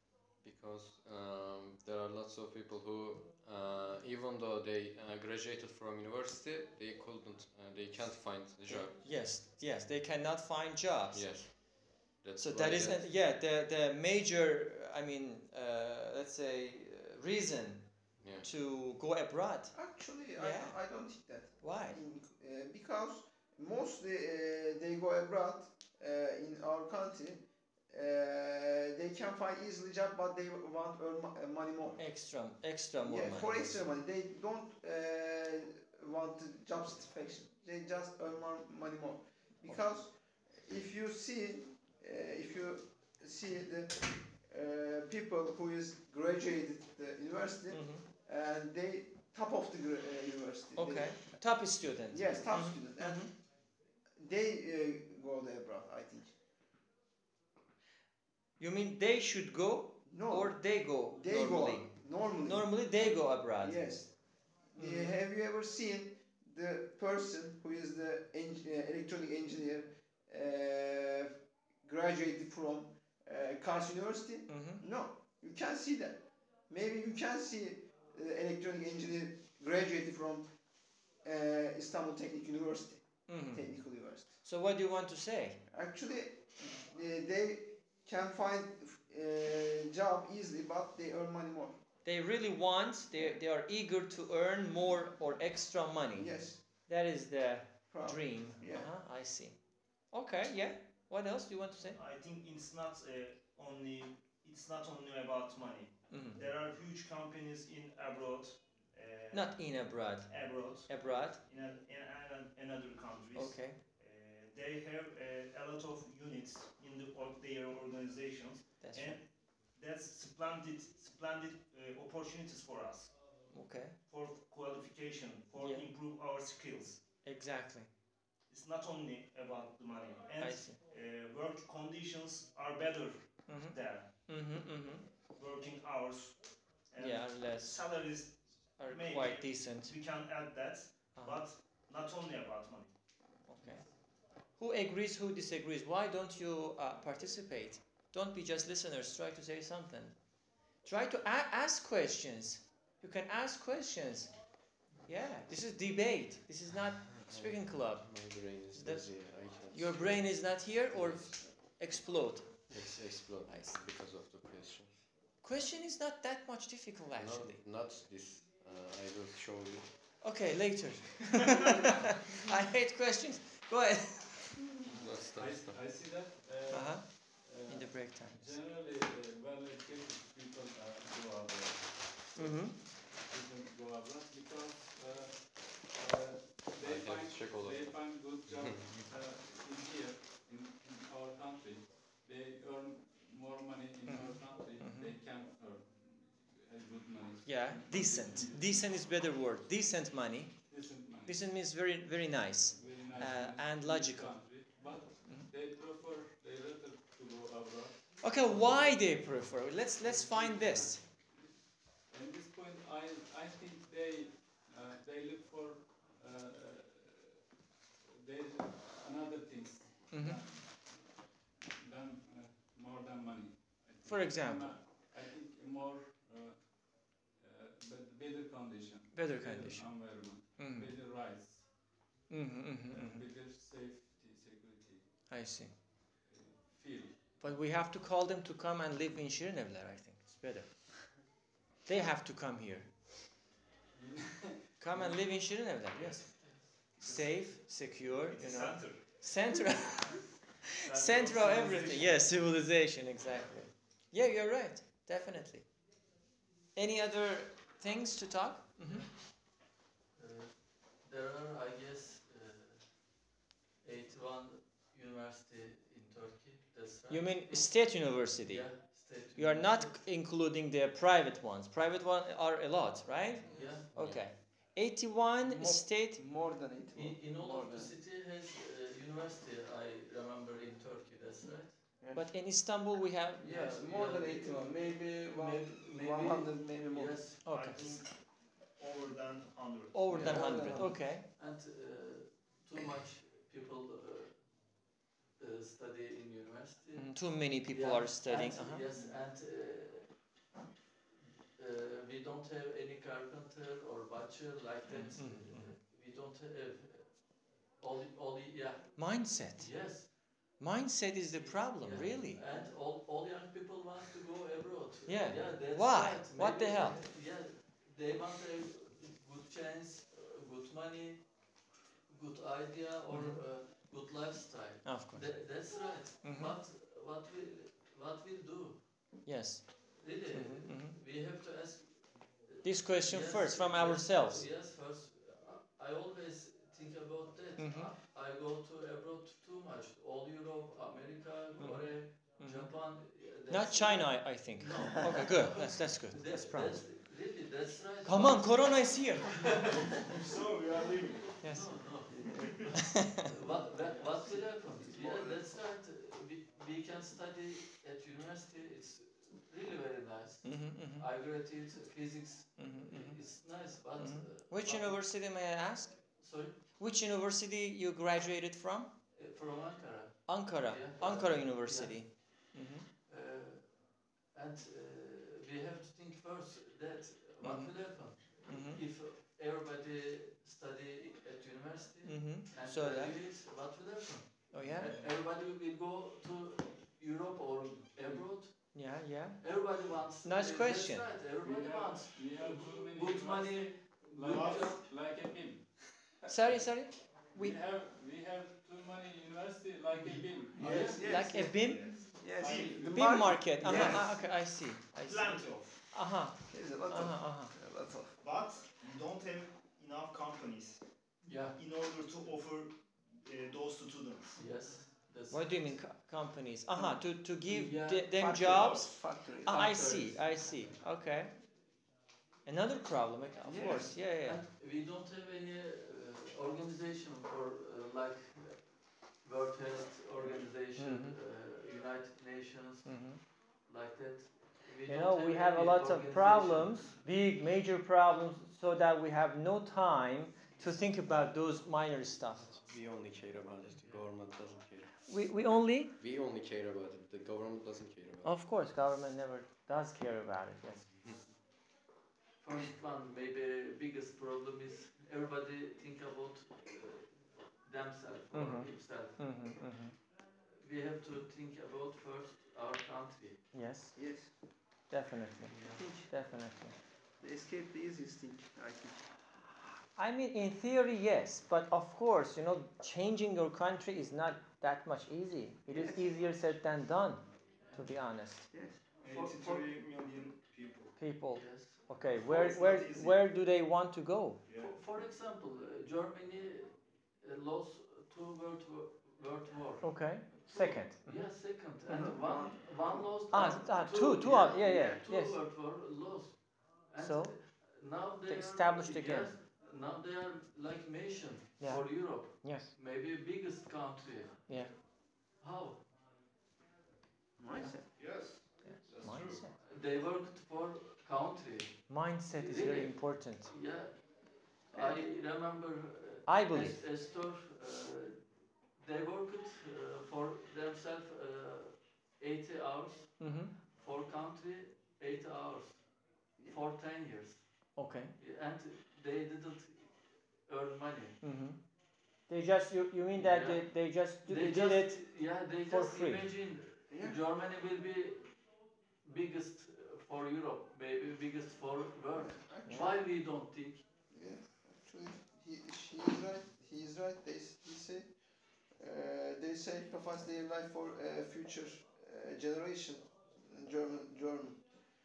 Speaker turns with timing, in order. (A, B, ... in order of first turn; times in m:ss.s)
0:00.4-0:09.2 A
0:08.6-0:11.4 B
0:11.1-0:13.1 A
0:12.4-0:19.7 B
0:18.2-0:18.5 A
0:19.7-0:32.0 C
0:20.4-0:20.8 B
0:21.6-0:22.0 B
0:32.0-0:33.8 B
0:33.0-0:51.4 C
0:47.7-0:48.0 B
0:50.8-0:53.3 B
0:52.1-0:53.3 C
0:54.2-0:56.4 C
0:58.6-1:03.8 B
1:00.0-1:02.8 C
1:03.6-1:04.1 C
1:04.7-1:20.5 C
1:04.8-1:05.2 B
1:14.5-1:14.8 B
1:21.2-1:24.3 C
1:23.3-1:23.6 B
1:24.4-1:25.6 B
1:25.7-1:31.8 C
1:32.0-1:36.3 B
1:36.1-1:36.6 C
1:36.9-1:39.6 B
1:37.9-1:38.9 C
1:40.1-1:42.0 B
1:41.9-1:49.5 D
1:46.1-1:46.4 B
1:49.3-1:51.4 B
1:50.3-2:03.1 D
1:53.3-1:53.8 B
1:58.8-1:59.2 B
2:03.5-2:04.0 B
2:04.1-2:07.0 D
2:05.6-2:05.9 B
2:07.2-2:07.9 B
2:08.5-2:14.1 D
2:10.4-2:10.8 B
2:13.5-2:15.0 B
2:15.3-2:22.9 D
2:17.0-2:17.8 B
2:18.8-2:19.9 B
2:21.1-2:21.4 B
2:23.5-2:23.8 B
2:24.6-2:30.1 B
2:30.8-2:34.3 B
2:35.0-2:38.1 B
2:37.1-2:41.5 A
2:38.7-2:39.1 B
2:39.7-2:42.8 B
2:42.7-2:45.0 A
2:43.4-2:43.8 B
2:45.4-2:47.6 B
2:47.2-2:49.9 A
2:50.2-2:54.7 B
2:51.8-2:52.2 A
2:54.8-2:55.8 A
2:54.9-3:02.6 E
2:56.7-2:58.5 B
3:02.4-3:02.8 B
3:03.2-3:18.8 E
3:06.8-3:09.1 A
3:14.0-3:15.1 B
3:17.4-3:24.3 B
3:20.7-3:21.4 E
3:22.7-3:29.0 E
3:28.2-3:31.0 B
3:30.0-3:31.5 E
3:32.1-3:37.4 E
3:38.1-3:51.8 E
3:40.1-3:40.4 B
3:44.0-3:44.7 B
3:49.1-3:50.9 B
3:52.3-3:53.2 B
3:52.9-3:55.0 E
3:55.3-3:55.7 B
3:56.2-3:57.3 E
3:57.4-4:00.9 B
4:01.8-4:02.9 B
4:03.9-4:05.2 E
4:04.8-4:15.7 B
4:06.4-4:06.6 F
4:08.2-4:09.1 D
4:10.8-4:12.3 D
4:16.7-4:19.1 B
4:18.8-4:19.1 F
4:20.1-4:23.2 F
4:23.8-4:30.0 F
4:27.1-4:36.2 B
4:33.4-4:33.9 F
4:33.5-4:33.8 C
4:33.9-4:34.3 A
4:35.4-4:37.9 C
4:36.9-4:41.8 F
4:42.0-4:42.3 C
4:42.1-4:43.4 B
4:43.4-4:47.4 F
4:43.4-4:47.2 C
4:47.4-4:48.0 B
4:47.5-4:50.1 D
4:49.9-4:51.2 B
4:50.1-4:51.0 C
4:50.1-4:54.6 F
4:55.4-5:00.2 F
4:56.9-4:58.8 B
5:01.6-5:10.2 F
5:04.9-5:05.7 B
5:09.0-5:12.4 B
5:11.4-5:21.3 F
5:15.1-5:17.0 B
5:22.1-5:29.1 F
5:23.1-5:23.4 B
5:24.8-5:25.6 B
5:26.2-5:26.6 B
5:29.2-5:31.0 B
5:30.0-5:49.9 F
5:32.6-5:34.4 B
5:37.6-5:37.9 B
5:41.6-5:46.9 B
5:48.0-5:49.6 B
5:50.0-5:51.4 D
5:51.4-5:51.8 B
5:51.4-6:05.0 F
5:52.1-5:52.5 C
5:52.3-5:52.7 D
5:52.8-5:53.3 B
5:53.5-5:55.4 C
6:00.4-6:01.0 B
6:02.6-6:08.9 B
6:06.2-6:06.6 F
6:09.1-6:12.5 F
6:10.3-6:12.9 B
6:13.1-6:34.8 F
6:17.4-6:18.8 B
6:22.0-6:23.2 B
6:24.5-6:24.9 B
6:24.6-6:25.1 E
6:28.0-6:28.3 E
6:28.7-6:31.1 B
6:31.4-6:41.2 E
6:34.2-6:34.8 D
6:36.3-6:37.6 B
6:40.5-6:41.1 F
6:40.6-6:44.1 C
6:41.0-6:42.0 B
6:41.5-6:42.8 D
6:42.4-6:43.9 E
6:42.9-6:47.5 B
6:43.6-6:44.2 D
6:45.0-6:45.8 D
6:46.5-6:48.2 C
6:48.2-6:50.8 D
6:51.2-6:51.6 F
6:51.6-6:54.4 D
6:54.4-6:55.8 F
6:55.3-7:01.3 B
6:57.4-6:58.3 F
6:58.1-6:59.8 C
6:59.4-7:00.5 F
7:02.4-7:04.4 B
7:03.4-7:03.9 C
7:04.2-7:13.0 F
7:10.7-7:11.2 B
7:12.8-7:13.2 B
7:13.6-7:16.9 F
7:14.9-7:22.5 B
7:22.4-7:24.9 A
7:25.1-7:25.9 B
7:26.0-7:28.3 A
7:28.2-7:30.8 B
7:32.4-7:39.2 F
7:38.3-7:39.9 B
7:40.5-7:43.4 F
7:43.5-7:44.0 B
7:43.9-7:44.3 C
7:44.9-7:46.7 B
7:45.5-7:45.8 F
7:45.7-7:46.1 C
7:47.2-7:49.1 C
7:50.0-7:58.5 B
7:55.7-7:56.2 C
7:58.5-7:58.8 C
7:59.0-8:00.9 D
7:59.0-7:59.7 F
8:01.0-8:04.4 B
8:01.3-8:02.7 F
8:02.2-8:03.2 D
8:04.4-8:04.7 D
8:04.6-8:24.7 F
8:09.8-8:11.3 B
8:11.9-8:13.6 C
8:13.3-8:15.4 B
8:14.6-8:14.9 C
8:17.0-8:17.6 B
8:18.3-8:19.3 B
8:21.6-8:22.7 B
8:24.5-8:24.7 B
8:25.4-8:25.8 F
8:27.4-8:27.8 C
8:27.9-8:29.4 D
8:28.6-8:29.5 B
8:29.6-8:45.9 F
8:31.9-8:33.5 B
8:34.7-8:35.0 C
8:36.2-8:36.8 B
8:43.2-8:43.5 B
8:46.4-8:51.2 F
8:47.8-8:48.1 B
8:51.2-8:51.6 B
8:52.3-8:55.1 B
8:53.2-8:53.7 F
8:54.2-8:58.4 F
8:55.6-8:56.2 B
8:56.9-8:57.2 C
8:59.0-9:03.8 F
9:02.2-9:02.9 C
9:04.1-9:08.1 C
9:08.8-9:14.6 C